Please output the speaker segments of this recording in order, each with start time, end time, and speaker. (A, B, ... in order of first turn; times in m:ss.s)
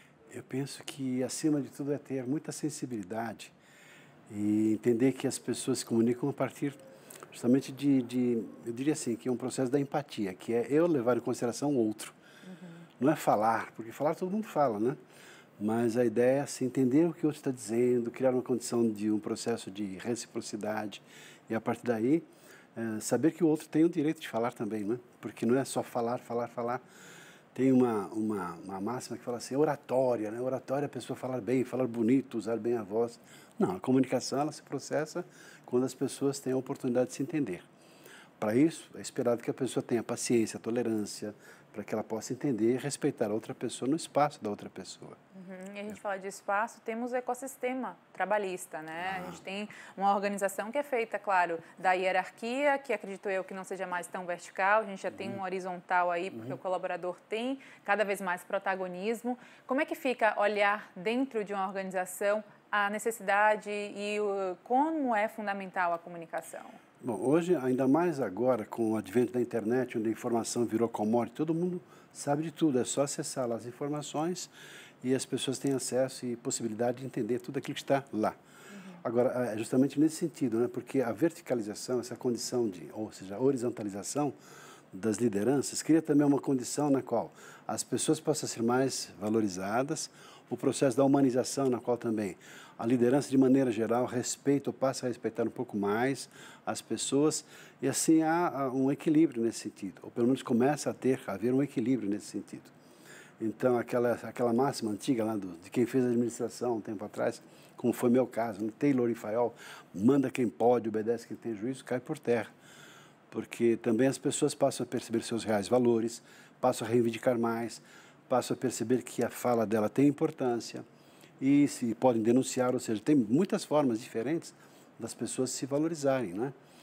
0:00.3-0:03.5 A
0:04.3-0:06.8 A
0:07.3-0:12.2 A
0:12.5-0:12.8 B
0:13.0-0:15.0 A
0:15.6-0:26.8 A
0:27.5-0:37.7 A
0:38.4-0:45.2 A
0:45.3-1:06.8 B
0:49.0-0:49.4 A
1:07.0-1:14.5 A
1:15.0-1:18.4 A
1:18.7-1:19.0 B
1:19.0-1:24.4 A
1:24.9-1:42.7 A
1:43.4-1:52.5 A
1:53.3-2:00.8 A
2:01.4-2:06.5 A